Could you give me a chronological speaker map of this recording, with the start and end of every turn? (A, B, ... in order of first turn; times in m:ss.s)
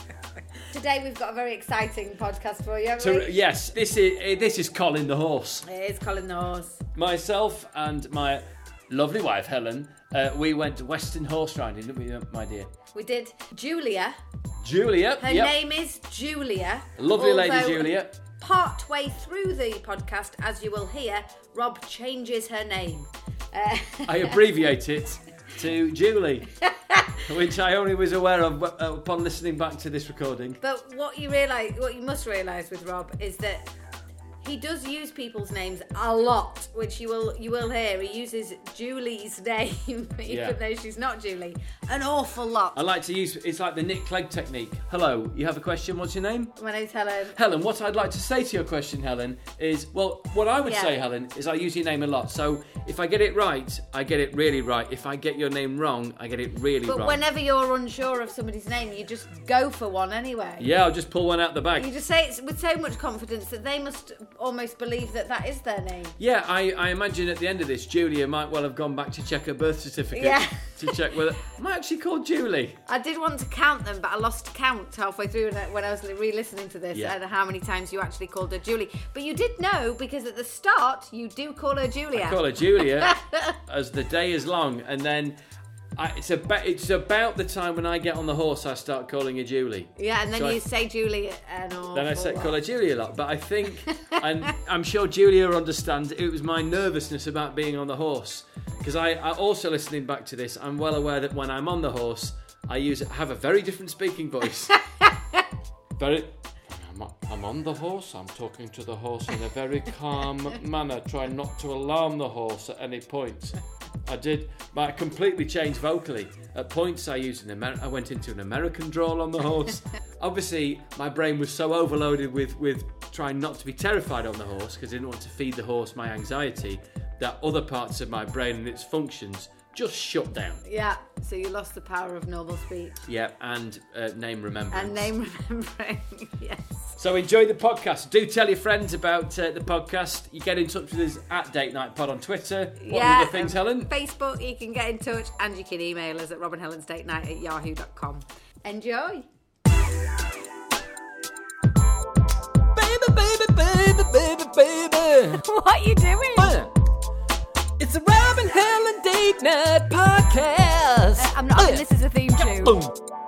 0:00.7-0:03.4 A
0:03.0-0:05.6 B
0:05.6-0:06.8 A
0:06.9-0:12.7 B
0:12.9-0:14.2 A
0:14.6-0:15.6 B
0:15.2-0:24.4 A
0:17.0-0:18.1 B
0:24.0-0:26.5 B
0:27.2-0:30.6 B
0:30.6-0:33.7 A
0:34.4-0:42.8 A
0:40.3-0:40.6 B
0:42.7-0:46.5 B
0:46.6-0:47.4 A
0:47.3-0:57.2 B
0:50.6-0:50.9 A
0:56.8-1:00.7 A
1:00.6-1:01.9 B
1:01.7-1:06.2 A
1:06.2-1:12.8 B
1:10.1-1:10.9 A
1:12.9-1:23.6 A
1:22.1-1:25.4 B
1:26.0-1:30.6 B
1:30.0-1:32.5 A
1:31.9-1:44.8 B
1:33.9-1:34.2 A
1:46.0-2:10.6 B
2:10.6-2:13.0 A
2:13.1-2:15.1 B
2:14.7-2:16.9 A
2:17.0-2:23.9 B
2:22.8-2:29.2 A
2:32.7-2:35.4 B
2:35.3-2:36.6 A
2:36.4-2:36.7 B
2:37.8-2:41.8 B
2:41.2-2:42.8 A
2:42.4-2:43.0 B